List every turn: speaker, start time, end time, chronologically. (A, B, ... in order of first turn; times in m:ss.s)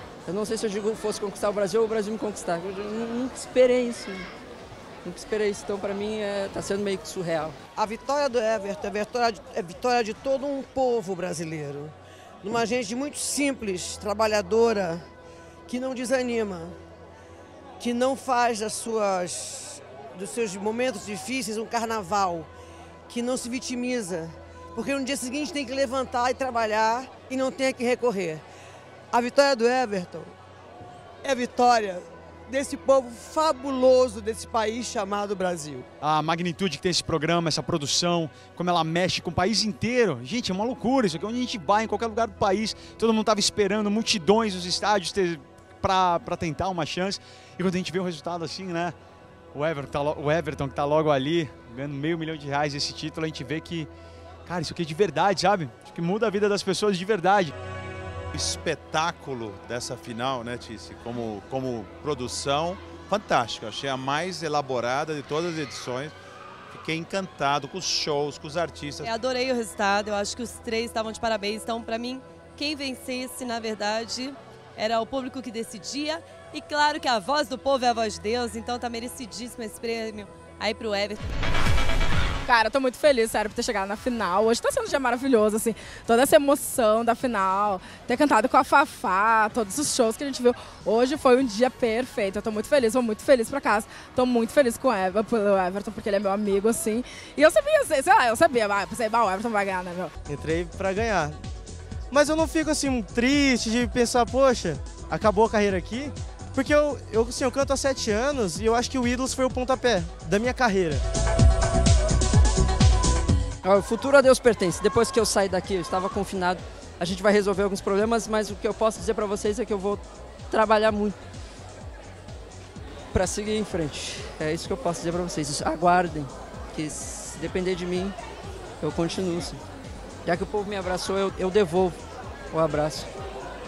0:00.3-0:04.3 A
0:05.0-0:07.6 A
0:07.8-0:15.0 B
0:15.7-0:16.7 B
0:17.8-0:22.5 B
0:23.1-0:28.4 B
0:29.1-0:30.3 B
0:31.2-0:35.8 B
0:36.0-0:49.0 C
0:49.5-0:53.9 C
0:54.4-0:57.5 C
0:58.3-1:06.1 D
1:06.7-1:09.1 D
1:09.0-1:21.4 E
1:22.4-1:40.1 F
1:40.2-1:41.4 G
1:42.1-1:51.0 G
1:53.6-2:01.2 A
2:03.1-2:08.2 A
2:08.8-2:09.6 A
2:10.2-2:12.0 A
2:12.5-2:13.1 A